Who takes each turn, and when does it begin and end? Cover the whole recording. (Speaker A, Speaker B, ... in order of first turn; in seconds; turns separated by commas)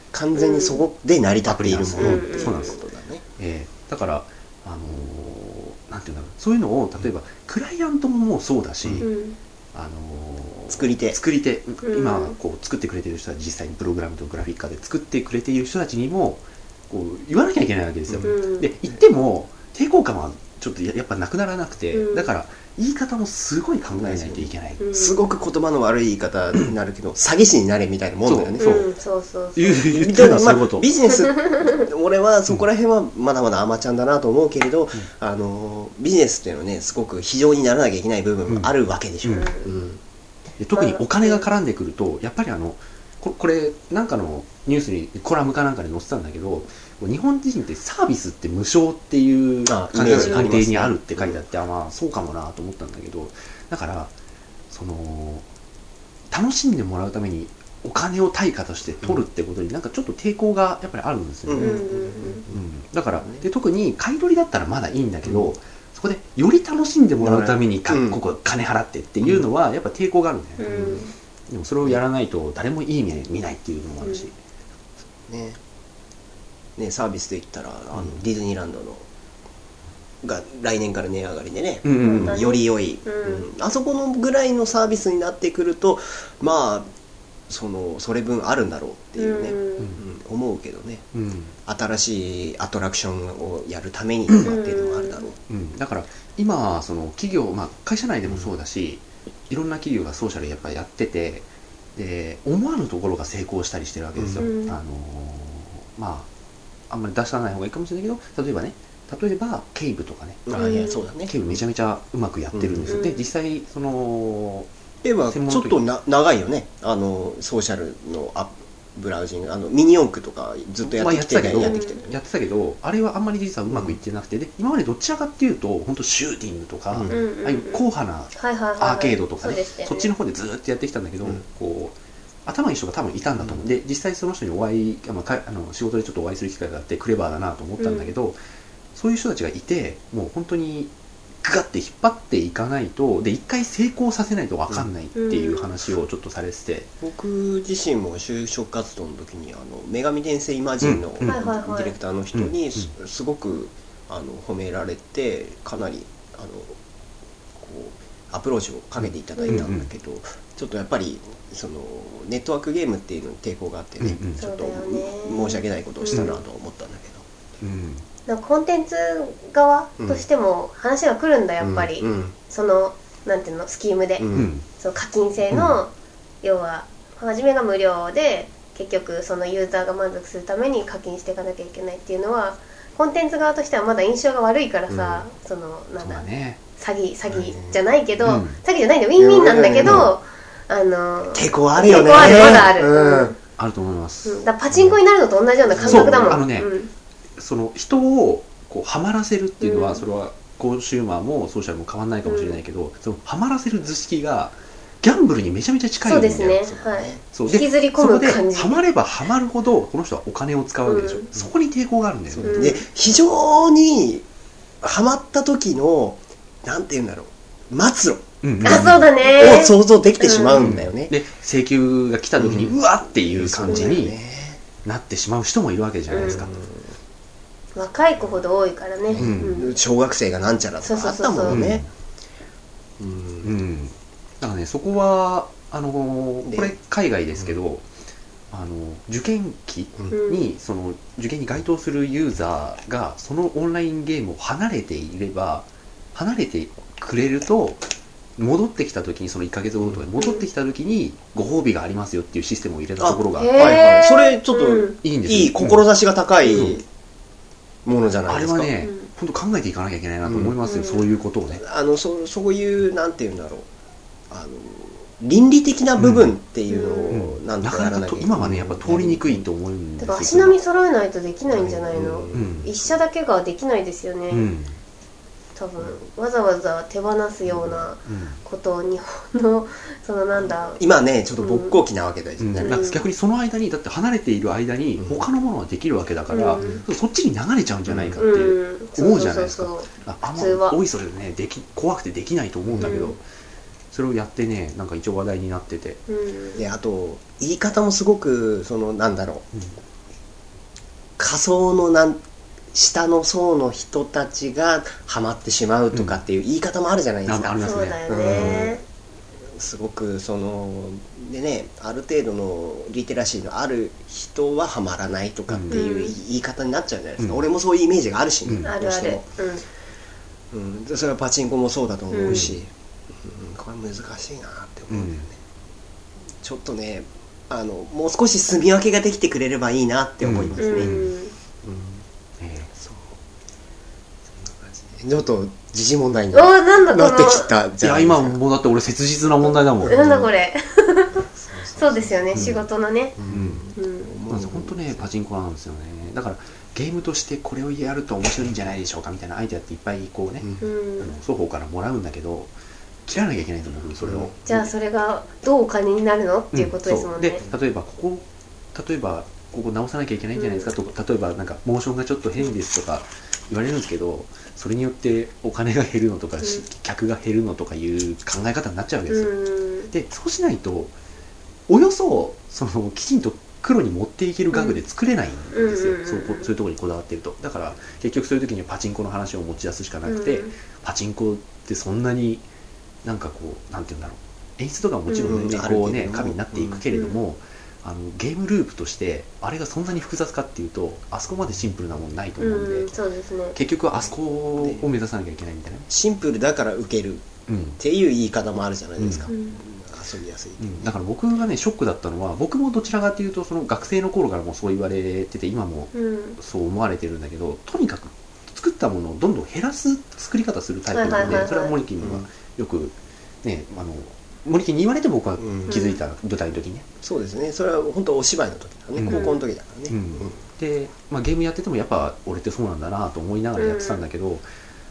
Speaker A: 0.1-3.2, Speaker B: 0.3-0.8, Speaker C: 1.4-2.8, Speaker B: 2.0-2.8, Speaker C: 3.4-9.1, Speaker B: 9.0-9.4, Speaker C: 9.7-24.8, Speaker A: 10.7-11.2, Speaker B: 11.8-12.3, Speaker B: 18.2-18.7, Speaker B: 21.9-22.3, Speaker A: 23.9-28.8, Speaker B: 24.8-25.2, Speaker C: 28.2-28.9, Speaker B: 28.6-29.9, Speaker C: 29.6-30.9, Speaker A: 29.9-40.0, Speaker B: 31.1-31.8, Speaker C: 39.2-39.5, Speaker B: 39.3-39.7, Speaker C: 40.6-54.1, Speaker B: 40.7-41.4, Speaker A: 49.6-51.4, Speaker B: 50.1-50.4, Speaker C: 54.7-55.4, Speaker C: 56.3-61.8, Speaker A: 61.5-62.6, Speaker B: 61.6-62.4, Speaker C: 62.5-71.0, Speaker A: 63.1-63.5, Speaker A: 67.2-68.2, Speaker B: 70.6-71.1, Speaker A: 70.7-71.0, Speaker C: 71.5-74.3, Speaker B: 74.0-74.3, Speaker A: 75.0-75.6, Speaker A: 76.8-79.0, Speaker A: 80.2-86.9, Speaker C: 81.8-82.4, Speaker B: 82.0-83.5, Speaker A: 87.5-91.0, Speaker B: 89.2-89.9, Speaker C: 91.1-91.5, Speaker A: 91.7-95.4, Speaker B: 94.4-95.3, Speaker C: 95.5-106.3, Speaker A: 104.2-104.5, Speaker B: 104.4-104.8, Speaker C: 106.9-114.7, Speaker A: 110.5-111.4, Speaker B: 110.5-111.0, Speaker A: 112.5-113.0, Speaker B: 112.9-113.3, Speaker A: 115.0-122.2, Speaker C: 115.3-115.8, Speaker C: 120.8-131.9, Speaker B: 121.6-122.1, Speaker A: 123.7-124.0, Speaker A: 126.9-127.2, Speaker B: 127.1-127.8, Speaker B: 128.3-130.1, Speaker C: 132.4-138.4, Speaker A: 133.4-133.7, Speaker B: 137.8-138.1, Speaker C: 138.9-140.9, Speaker C: 141.4-146.9, Speaker B: 145.2-145.7, Speaker A: 147.0-156.8, Speaker C: 150.8-151.4, Speaker B: 151.2-151.9, Speaker C: 152.3-152.9, Speaker A: 157.5-167.3, Speaker B: 159.4-159.7, Speaker C: 159.5-159.9, Speaker C: 164.0-164.4, Speaker B: 164.4-166.4, Speaker C: 167.6-168.0, Speaker B: 168.3-193.3, Speaker A: 170.0-170.2, Speaker A: 171.6-172.3, Speaker A: 174.2-174.5, Speaker C: 174.3-174.6, Speaker A: 184.9-185.2, Speaker C: 186.0-186.6, Speaker A: 187.3-187.8, Speaker C: 188.2-188.6, Speaker A: 189.2-190.1, Speaker C: 189.8-190.1, Speaker A: 191.3-193.3, Speaker C: 192.1-192.7, Speaker C: 193.6-194.4, Speaker B: 194.2-196.9, Speaker A: 195.7-196.4, Speaker C: 195.8-196.7, Speaker C: 197.4-206.7, Speaker B: 199.6-200.0, Speaker B: 202.2-202.6, Speaker B: 206.0-208.8, Speaker A: 206.4-207.2, Speaker C: 207.3-212.7, Speaker B: 210.8-211.3, Speaker A: 212.3-214.2, Speaker B: 212.4-212.8, Speaker A: 214.8-221.1, Speaker C: 218.4-219.6, Speaker B: 218.6-220.7, Speaker C: 220.6-224.2, Speaker A: 222.4-224.6, Speaker B: 223.7-223.9, Speaker C: 224.8-226.5, Speaker B: 226.1-226.5, Speaker A: 226.1-226.8, Speaker B: 227.8-229.7, Speaker A: 229.1-231.8, Speaker C: 229.2-229.6, Speaker B: 230.8-231.6, Speaker C: 231.5-231.9, Speaker A: 233.0-233.5, Speaker C: 233.4-237.8, Speaker A: 236.4-236.7, Speaker C: 238.5-247.8, Speaker B: 240.1-240.5, Speaker C: 248.4-253.8, Speaker A: 249.8-250.0, Speaker A: 253.0-256.8, Speaker B: 253.3-255.0, Speaker C: 255.0-255.8, Speaker B: 256.4-256.7, Speaker C: 256.5-256.8, Speaker A: 257.8-258.7, Speaker C: 258.3-261.6, Speaker B: 258.8-259.1, Speaker A: 260.2-260.6, Speaker B: 260.6-261.1, Speaker A: 261.5-263.7, Speaker A: 264.3-269.4, Speaker C: 266.0-266.3, Speaker B: 266.7-267.2, Speaker C: 267.1-270.6, Speaker B: 270.0-274.5, Speaker A: 271.5-273.0, Speaker C: 272.3-272.7, Speaker C: 274.3-274.8, Speaker B: 275.6-280.8, Speaker A: 277.4-277.9, Speaker C: 278.1-278.4, Speaker A: 280.8-283.0, Speaker B: 281.4-281.8, Speaker C: 282.4-293.2, Speaker B: 282.6-283.1, Speaker A: 285.0-285.3, Speaker B: 286.3-286.7, Speaker A: 286.5-286.8, Speaker A: 287.9-288.2, Speaker B: 288.2-290.8, Speaker A: 292.7-293.1, Speaker B: 292.8-293.1, Speaker C: 293.9-296.0, Speaker B: 296.1-296.6, Speaker A: 296.6-299.4, Speaker A: 301.2-302.2, Speaker A: 302.7-308.8, Speaker C: 305.9-306.2, Speaker C: 307.2-308.6, Speaker B: 307.6-308.8, Speaker A: 309.5-319.3, Speaker C: 315.5-315.8, Speaker B: 315.7-316.1, Speaker C: 318.4-318.7, Speaker B: 318.6-319.6, Speaker A: 320.5-325.4, Speaker B: 322.1-322.5, Speaker C: 322.3-322.6, Speaker C: 324.9-325.3, Speaker A: 326.4-330.9, Speaker C: 330.2-331.1, Speaker B: 330.6-331.3, Speaker A: 331.6-332.0, Speaker C: 332.4-332.7, Speaker A: 332.7-333.2, Speaker A: 334.3-338.4, Speaker B: 336.3-337.5, Speaker C: 337.8-340.2, Speaker A: 339.4-340.3, Speaker B: 339.9-343.2, Speaker A: 341.3-342.6, Speaker C: 342.3-342.6, Speaker A: 343.2-345.1, Speaker C: 343.3-343.6, Speaker B: 343.8-344.1, Speaker C: 344.3-350.5, Speaker B: 350.6-351.1, Speaker C: 351.0-352.5, Speaker C: 353.1-354.5, Speaker A: 354.0-354.5, Speaker B: 354.5-357.4, Speaker C: 356.5-369.4, Speaker B: 360.4-360.7, Speaker B: 369.1-369.9, Speaker C: 369.9-370.9, Speaker C: 371.7-382.4, Speaker B: 374.5-374.8, Speaker B: 375.5-376.5, Speaker B: 380.1-380.5, Speaker C: 383.0-392.9, Speaker B: 385.1-385.4, Speaker A: 385.2-386.8, Speaker B: 386.9-387.2, Speaker B: 392.4-393.6, Speaker C: 393.5-395.9, Speaker A: 393.9-394.9, Speaker A: 395.9-400.9, Speaker C: 397.5-397.8, Speaker C: 399.0-399.3, Speaker B: 399.3-399.6, Speaker C: 400.6-416.9, Speaker B: 405.9-406.4, Speaker B: 410.9-411.7, Speaker A: 411.1-412.2, Speaker A: 415.4-415.8, Speaker B: 415.7-416.0, Speaker A: 417.0-420.4, Speaker C: 418.9-419.3, Speaker B: 419.1-419.4, Speaker C: 419.9-424.4, Speaker B: 423.6-424.1